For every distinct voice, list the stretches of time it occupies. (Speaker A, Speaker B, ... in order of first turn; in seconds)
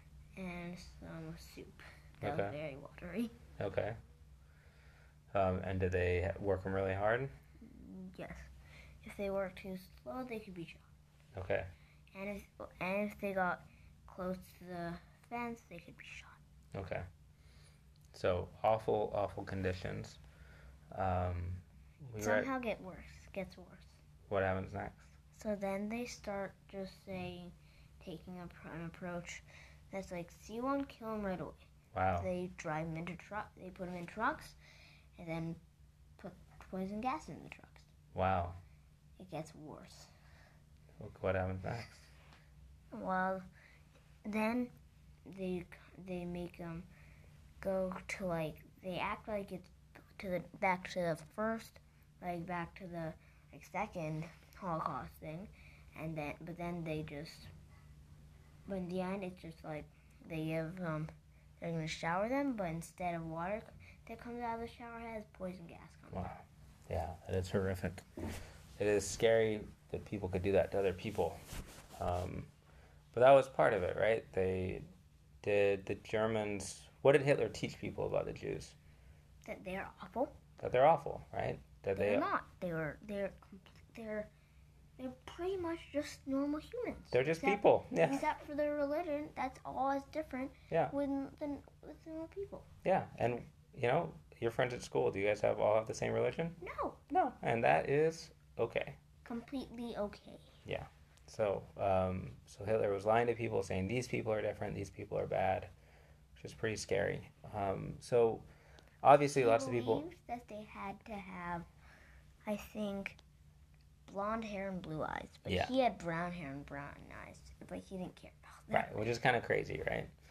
Speaker A: 0.3-3.4, 7.6-10.8, 12.1-16.4, 22.2-24.0, 25.3-31.6, 32.2-34.6, 35.2-35.6, 36.2-37.9, 39.2-40.1, 42.9-43.5, 44.2-44.7, 45.3-46.9, 47.6-57.5, 58.6-66.3, 79.4-80.3, 82.0-84.3, 85.0-92.7, 96.6-97.0, 99.2-100.5, 109.3-111.7, 112.4-113.2, 114.1-118.9
Speaker B: 2.2-2.5, 3.6-4.0, 5.3-7.3, 11.3-11.7, 16.7-17.0, 18.1-20.2, 20.9-22.5, 24.3-25.1, 31.9-32.3, 38.1-38.6, 41.0-42.1, 66.1-68.0, 68.8-71.4, 72.0-72.5, 73.1-74.8, 75.4-78.8, 80.6-82.2, 87.1-88.3, 92.8-96.6, 97.1-99.0, 100.6-105.7, 106.3-108.5, 109.0-110.0, 115.5-115.7, 118.7-120.1